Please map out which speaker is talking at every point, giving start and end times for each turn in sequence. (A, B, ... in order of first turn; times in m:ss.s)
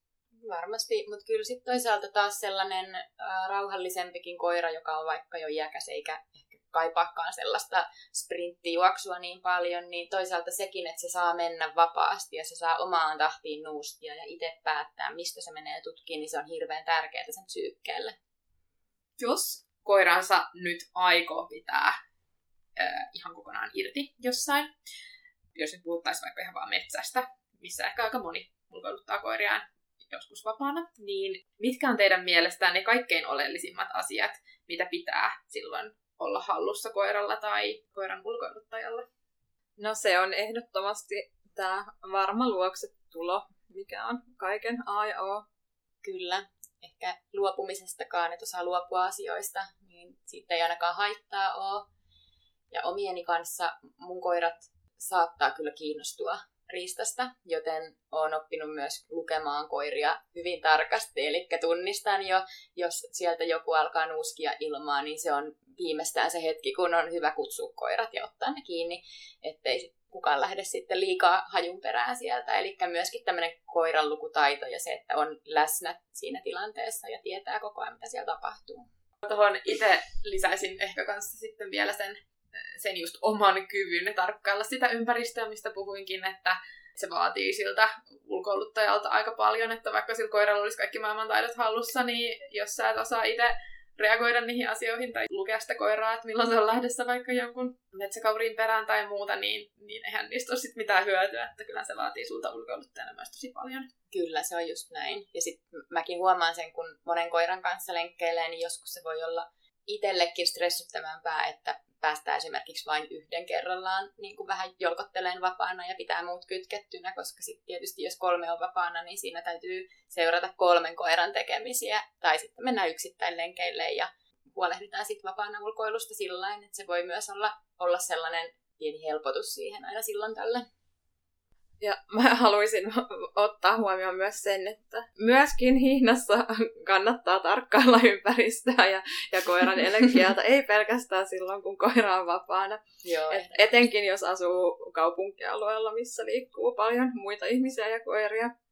0:00.4-0:18.2 A
0:19.2-0:22.0 B
0:22.8-0:24.7 B
0:25.6-0:39.1 B
0:39.8-0:45.5 C
0:46.0-0:51.9 A
0:52.7-1:18.9 A
1:19.2-1:43.9 B
1:44.1-2:10.7 A
2:11.8-2:28.5 C
2:23.0-2:23.9 A